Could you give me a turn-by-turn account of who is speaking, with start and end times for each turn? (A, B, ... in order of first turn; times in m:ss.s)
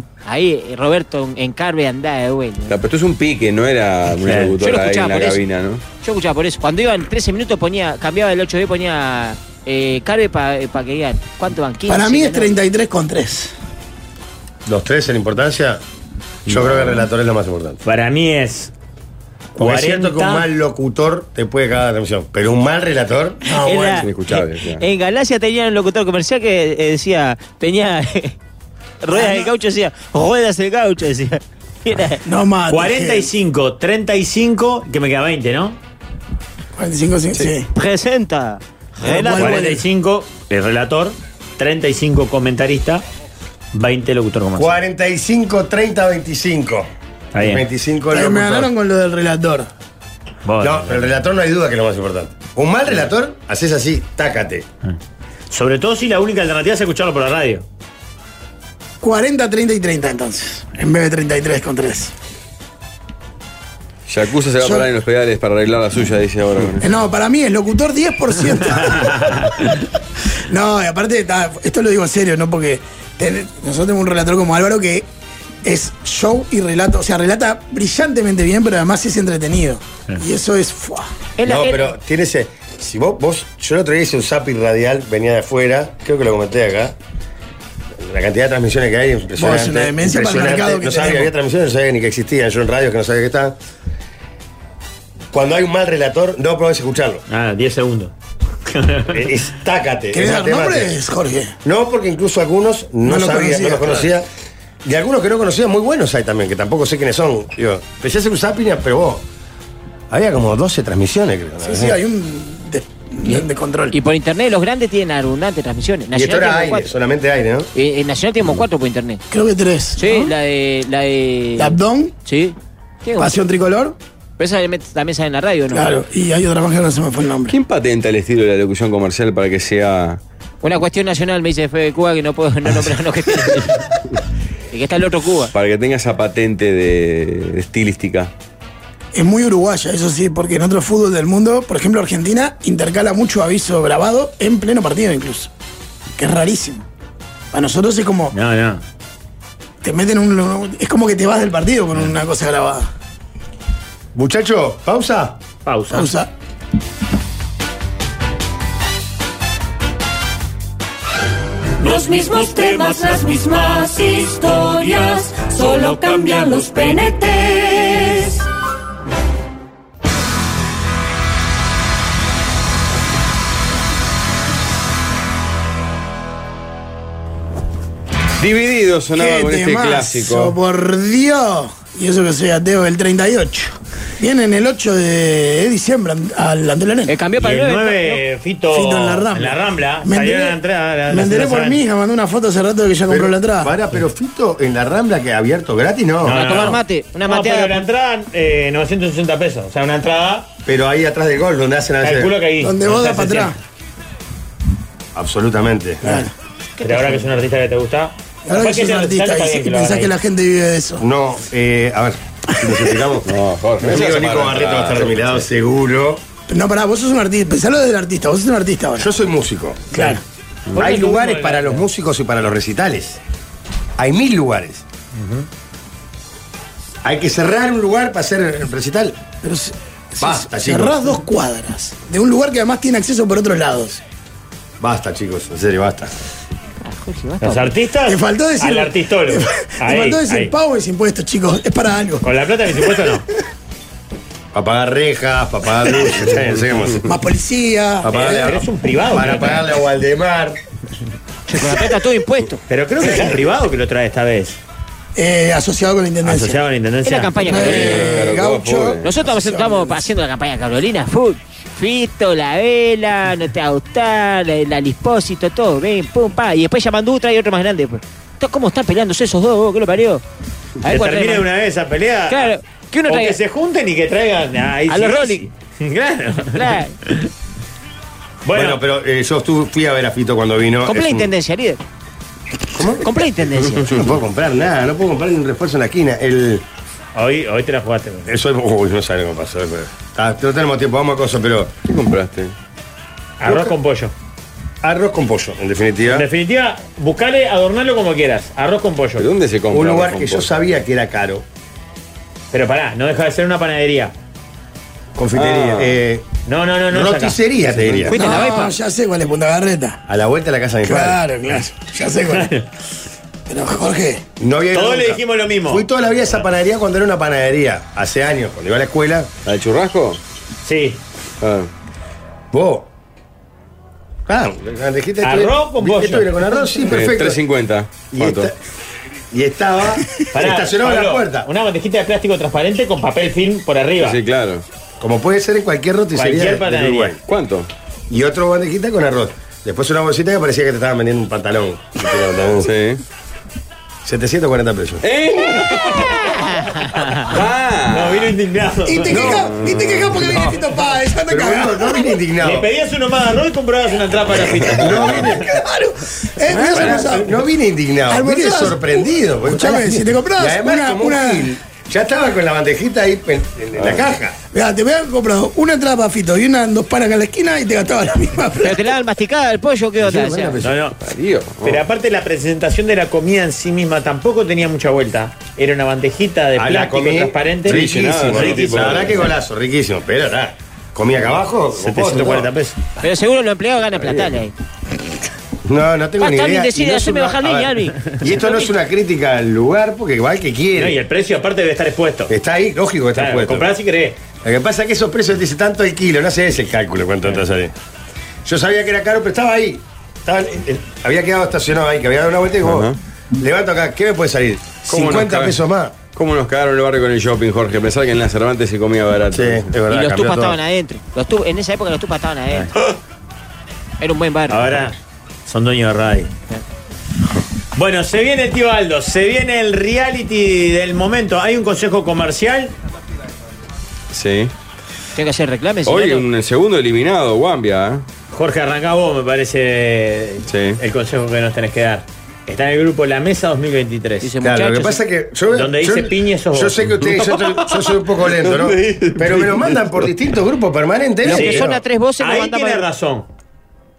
0:00.2-0:02.8 A
0:02.7-0:05.8 B
0:04.2-0:04.5 C
0:04.6-0:05.4 A
0:06.0-0:12.5 A
0:11.9-0:13.5 D
0:14.6-0:15.8 E
0:16.4-0:17.8 E
0:16.5-0:17.0 B
0:17.8-0:18.7 C
0:19.6-0:23.4 E
0:19.6-0:20.4 C
0:23.4-0:24.0 D
0:23.6-0:28.3 A
0:24.0-0:24.8 B
0:29.0-0:32.2 A
0:29.1-0:29.5 D
0:32.2-0:33.3 D
0:32.7-0:35.8 C
0:36.8-0:37.7 D
0:37.7-0:39.7 A
0:39.0-0:39.8 D
0:39.0-0:43.0 C
0:43.7-0:44.8 C
0:44.6-0:48.7 E
0:47.3-0:47.6 C
0:48.1-0:49.7 D
0:50.4-0:51.1 C
0:50.6-0:54.6 E
0:55.5-0:57.6 C
0:59.0-1:02.1 D
1:04.1-1:06.8 B
1:04.6-1:04.9 D
1:06.8-1:09.5 D
1:10.5-1:15.1 D
1:15.6-1:21.1 D
1:21.4-1:21.9 A
1:21.4-1:26.9 E
1:28.0-1:33.6 E
1:29.4-1:31.3 D
1:35.3-1:37.2 E
1:37.3-1:38.1 C
1:38.7-1:39.1 C
1:39.1-1:40.9 E
1:40.1-1:41.5 D
1:41.6-1:44.3 E
1:43.0-1:44.1 D
1:44.8-1:49.2 E
1:50.1-1:52.0 E
1:51.6-1:54.0 D
1:53.3-1:56.9 A
1:56.1-1:57.7 E
1:57.7-1:59.2 A
1:59.3-2:00.3 D
2:00.0-2:03.3 A
2:01.6-2:02.1 D
2:03.2-2:04.0 D
2:04.4-2:05.9 A
2:05.7-2:07.6 D
2:07.5-2:10.2 B
2:10.6-2:13.8 A
2:14.7-2:15.5 A
2:15.5-2:18.3 B
2:19.1-2:25.5 D
2:26.2-2:26.8 D
2:27.5-2:28.3 D
2:28.3-2:28.8 C
2:29.8-2:32.9 D
2:34.1-2:35.4 E
2:35.6-2:36.1 C
2:35.9-2:36.3 D
2:41.8-2:48.4 F
2:58.4-3:00.6 B
2:59.2-3:07.2 D
3:07.1-3:08.2 A
3:07.4-3:11.8 C
3:08.7-3:10.6 D
3:11.1-3:13.7 D
3:13.1-3:16.8 E
3:16.2-3:20.4 C
3:16.3-3:17.8 A
3:20.6-3:22.3 E
3:22.0-3:23.5 C
3:22.6-3:23.5 D
3:25.1-3:26.2 E
3:26.0-3:26.3 D
3:26.8-3:27.2 A
3:26.8-3:30.1 C
3:28.4-3:31.0 D
3:31.0-3:36.2 E
3:33.2-3:35.4 B
3:36.5-3:39.1 D
3:39.0-3:39.9 E
3:39.9-3:40.2 D
3:39.9-3:40.2 C
3:40.7-3:41.8 C
3:40.8-3:43.2 E
3:44.0-3:44.8 E
3:45.2-3:45.4 C
3:47.0-3:49.2 E
3:49.4-3:54.0 D
3:50.2-3:51.0 E
3:54.8-3:56.1 E
3:56.8-3:57.7 A
3:57.4-4:00.5 C
3:58.0-4:02.2 D
4:02.2-4:03.2 C
4:04.5-4:07.1 E
4:07.0-4:08.1 D
4:08.0-4:10.6 E
4:08.1-4:09.6 C
4:11.5-4:12.6 A
4:12.7-4:14.6 C
4:15.2-4:16.6 D
4:16.2-4:18.0 C
4:17.0-4:18.1 A
4:17.4-4:20.0 D
4:17.5-4:19.0 B
4:19.0-4:30.2 A
4:30.8-4:31.5 A
4:30.8-4:32.5 C
4:32.3-4:33.4 A
4:33.0-4:37.1 C
4:34.9-4:35.4 A
4:36.4-4:36.9 A
4:38.4-4:38.8 C
4:38.5-4:41.3 E
4:40.8-4:41.8 A
4:42.7-4:43.1 E
4:42.9-4:44.0 A
4:43.8-4:46.6 E
4:47.1-4:48.3 C
4:48.3-4:51.8 E
4:51.8-4:52.5 B
4:53.4-4:54.1 C
4:53.4-4:53.7 E
4:54.8-4:56.3 E
4:56.0-4:59.2 C
4:59.2-5:00.5 B
4:59.7-5:01.4 E
5:02.5-5:04.1 C
5:05.2-5:06.2 E
5:05.3-5:06.0 B
5:06.4-5:07.4 C
5:06.9-5:08.4 E
5:08.0-5:08.7 A
5:08.1-5:10.0 D
5:10.1-5:11.2 E
5:10.8-5:12.6 D
5:12.3-5:12.6 C
5:13.5-5:14.2 D
5:14.4-5:19.3 E
5:14.7-5:15.8 C
5:19.4-5:20.2 B
5:20.6-5:21.0 C
5:21.4-5:21.7 B
5:22.5-5:22.9 E
5:24.3-5:27.4 E
5:25.2-5:26.3 C
5:26.9-5:28.5 B
5:28.0-5:28.5 E
5:29.3-5:31.5 E
5:30.3-5:34.2 C
5:34.0-5:34.6 B
5:35.0-5:37.2 E
5:36.1-5:37.2 C
5:37.2-5:37.7 B
5:38.1-5:42.7 E
5:42.6-5:43.0 B
5:44.0-5:45.0 E
5:45.0-5:46.4 B
5:46.5-5:47.1 A
5:47.2-5:48.3 B
5:47.9-5:49.3 C
5:48.8-5:52.2 D
5:49.1-5:49.5 E
5:49.3-5:50.4 B
5:51.3-5:52.7 E
5:52.4-5:55.3 C
5:54.6-5:55.5 E
5:55.2-5:57.4 D
5:56.5-6:04.3 E
5:56.5-5:57.1 B
5:58.1-6:01.5 D
6:03.8-6:04.0 B
6:04.5-6:08.9 D
6:08.6-6:10.6 A
6:10.0-6:10.8 E
6:10.6-6:11.0 C
6:11.0-6:11.8 B
6:11.6-6:19.3 C
6:16.6-6:22.5 E
6:17.7-6:19.3 B
6:21.8-6:22.9 C
6:23.0-6:24.5 A
6:24.0-6:24.3 B
6:25.6-6:31.0 E
6:26.2-6:28.6 A
6:30.8-6:32.3 C
6:32.3-6:33.7 E
6:33.1-6:34.2 C
6:34.4-6:37.7 E
6:38.4-6:46.0 E
6:42.6-6:43.0 B
6:44.9-6:45.6 B
6:46.1-6:49.7 B
6:49.3-6:50.6 E
6:49.9-6:52.7 A
6:54.0-6:54.8 A
6:54.5-6:54.9 C
6:55.5-6:56.3 C
6:57.8-7:02.7 C
7:04.1-7:04.5 B
7:05.2-7:06.2 A
7:05.8-7:08.0 B
7:08.3-7:14.3 C
7:10.5-7:10.8 B
7:14.2-7:15.0 A
7:14.4-7:21.8 E
7:15.5-7:16.9 C
7:18.3-7:20.1 B
7:21.2-7:22.8 A
7:21.2-7:21.6 C
7:22.2-7:23.2 C